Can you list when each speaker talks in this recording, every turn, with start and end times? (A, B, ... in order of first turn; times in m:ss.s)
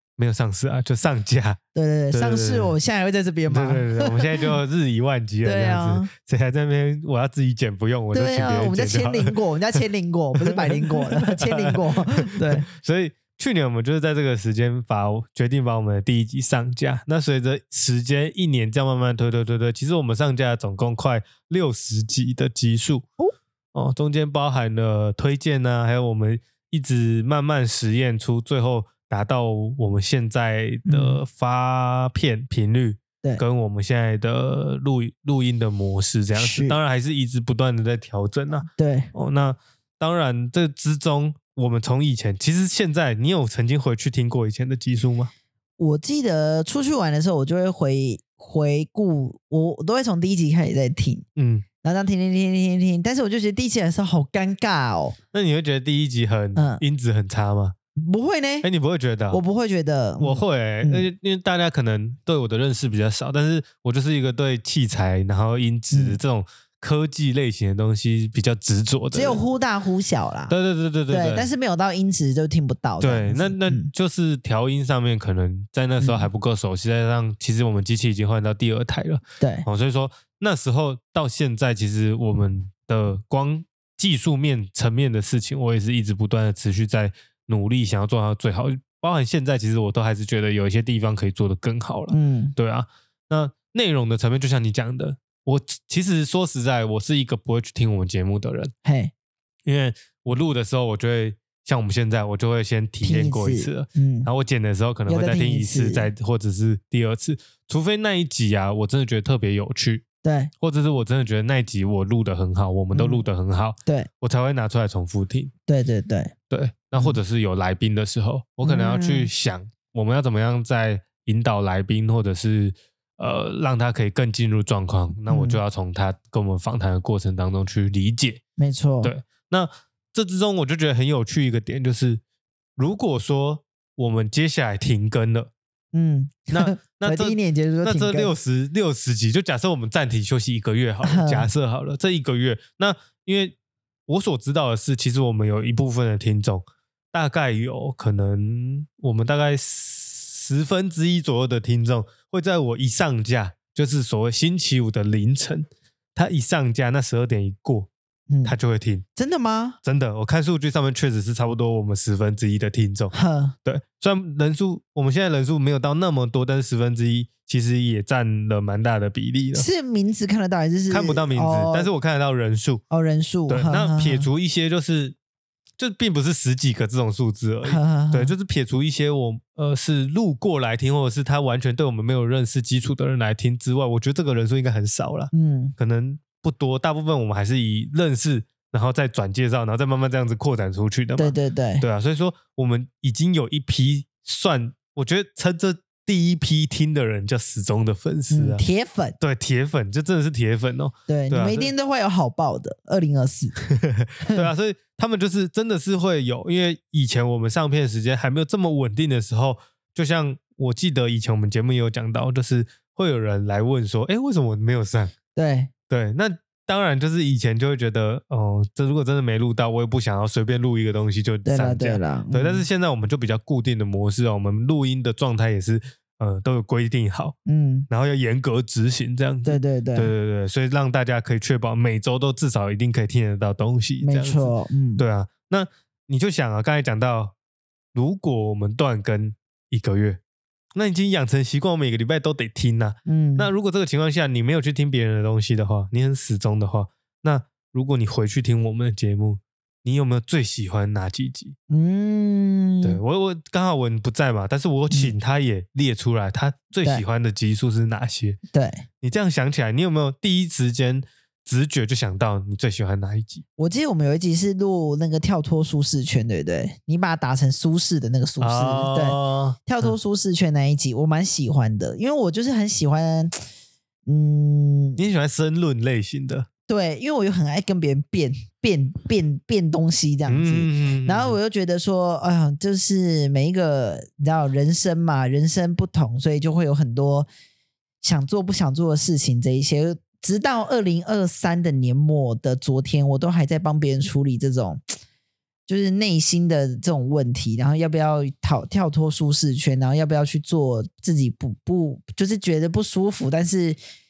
0:00.2-0:01.6 A
0:01.7-0:04.5 B
0:02.1-0:02.8 A
0:03.5-0:09.8 A
0:05.4-0:06.1 B
0:08.1-0:12.7 B
0:10.4-0:23.1 A
0:23.7-0:45.3 A
0:30.8-0:31.2 B
0:36.3-0:36.8 B
0:38.6-0:39.1 B
0:45.8-0:51.2 B
0:51.4-0:51.6 A
0:51.8-0:55.2 B
0:55.3-0:57.7 A
0:56.5-0:56.8 B
0:58.0-0:58.7 B
0:58.6-0:59.4 A
0:59.3-1:01.0 B
1:00.2-1:09.4 A
1:05.9-1:06.2 B
1:09.1-1:10.5 B
1:10.5-1:11.5 A
1:11.1-1:13.9 B
1:13.0-1:38.7 A
1:16.0-1:16.3 B
1:19.4-1:19.7 B
1:32.1-1:32.5 B
1:38.8-1:39.1 B
1:39.6-1:50.0 A
1:43.0-1:44.3 B
1:45.1-1:46.1 B
1:50.2-1:50.5 B
1:50.6-1:55.5 A
1:52.9-1:53.2 B
1:55.7-1:56.3 B
1:56.5-2:08.4 A
1:58.6-1:59.3 B
2:05.3-2:05.6 B
2:08.6-2:09.1 B
2:09.0-2:12.2 A
2:12.8-2:15.5 A
2:15.9-2:18.3 B
2:16.5-2:23.5 A
2:21.0-2:21.5 B
2:24.1-2:37.9 A
2:38.3-2:38.6 B
2:38.4-2:39.0 A
2:39.2-2:39.8 B
2:39.8-2:43.1 A
2:43.1-2:43.6 B
2:43.6-2:49.7 A
2:49.5-2:51.9 B
2:50.9-2:52.8 A
2:52.9-2:54.3 B
2:53.5-2:55.2 A
2:55.8-3:18.6 A
2:57.6-2:58.3 B
3:05.3-3:05.7 B
3:11.2-3:11.8 B
3:18.3-3:19.2 B
3:19.2-3:21.7 A
3:21.1-3:23.6 B
3:23.6-3:35.1 A
3:24.2-3:24.5 B
3:35.3-3:35.7 B
3:35.9-3:47.3 A
3:41.4-3:42.6 B
3:47.4-3:47.9 B
3:47.9-3:57.3 A
3:49.4-3:50.1 B
3:54.0-3:55.0 B
3:57.9-4:00.2 A
4:00.7-4:11.5 A
4:03.0-4:03.5 B
4:11.7-4:13.0 B
4:12.8-4:18.4 A
4:18.5-4:18.8 B
4:19.0-4:23.4 A
4:23.6-4:33.3 B
4:28.4-4:29.9 A
4:34.0-4:35.0 B
4:35.0-4:36.5 A
4:36.7-4:47.3 B
4:40.3-4:41.4 A
4:48.0-4:54.8 B
4:55.7-5:03.8 B